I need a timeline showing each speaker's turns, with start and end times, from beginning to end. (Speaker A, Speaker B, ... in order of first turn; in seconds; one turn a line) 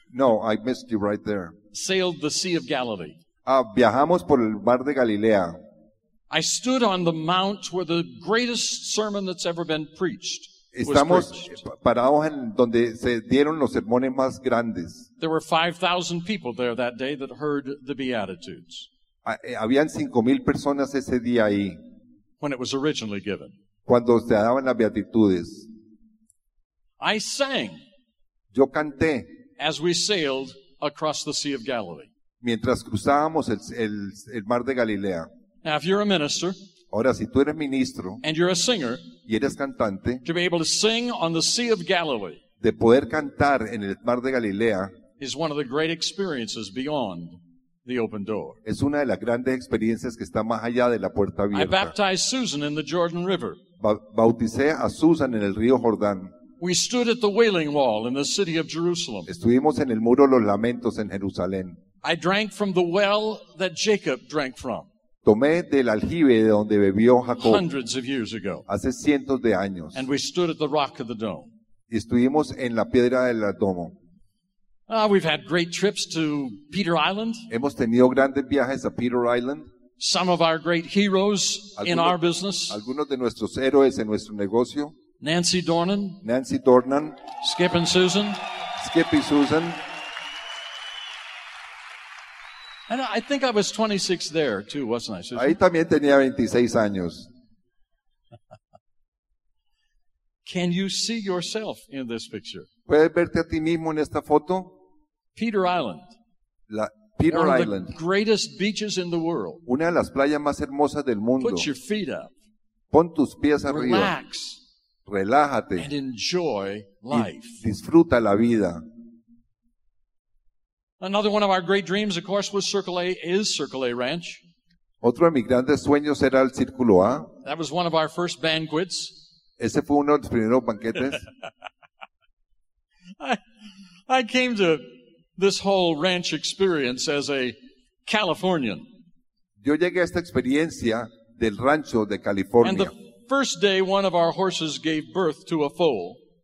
Speaker A: 0.1-1.5
Speaker B: 1.7-3.2
Speaker A: 3.4-5.5
Speaker B: 6.3-11.6
Speaker A: 10.7-15.1
Speaker B: 15.2-18.9
Speaker A: 19.2-21.8
Speaker B: 22.4-23.5
Speaker A: 23.9-25.7
Speaker B: 27.0-27.8
Speaker A: 28.5-29.3
Speaker B: 29.6-32.1
Speaker A: 32.4-35.3
Speaker B: 35.6-36.5
Speaker A: 36.9-38.2
Speaker B: 38.2-39.0
Speaker A: 39.2-40.2
Speaker B: 40.2-42.4
Speaker A: 42.6-44.9
Speaker B: 45.2-48.6
Speaker A: 48.6-51.9
Speaker B: 51.5-53.6
Speaker A: 53.8-56.3
Speaker B: 56.6-59.3
Speaker A: 59.3-61.8
Speaker B: 62.0-64.9
Speaker A: 65.2-67.6
Speaker B: 67.4-68.6
Speaker A: 68.7-70.0
Speaker B: 69.9-71.5
Speaker A: 71.9-73.9
Speaker B: 74.9-77.5
Speaker A: 77.5-79.7
Speaker B: 80.0-82.8
Speaker A: 81.8-84.9
Speaker B: 85.2-86.2
Speaker A: 86.2-87.2
Speaker B: 87.4-88.4
Speaker A: 88.8-89.8
Speaker B: 92.9-95.6
Speaker A: 95.3-97.3
Speaker B: 100.4-102.7
Speaker A: 102.9-104.7
Speaker B: 105.3-106.0
Speaker A: 106.7-107.9
Speaker B: 107.3-109.6
Speaker A: 109.7-111.7
Speaker B: 111.4-112.3
Speaker A: 112.9-114.1
Speaker B: 113.7-114.6
Speaker A: 115.0-115.9
Speaker B: 115.8-117.6
Speaker A: 117.1-118.8
Speaker B: 121.0-124.4
Speaker A: 125.0-127.3
Speaker B: 127.4-129.1
Speaker A: 129.6-131.2
Speaker B: 134.1-134.8
Speaker B: 135.4-138.8
Speaker A: 139.6-142.9
Speaker B: 142.6-146.2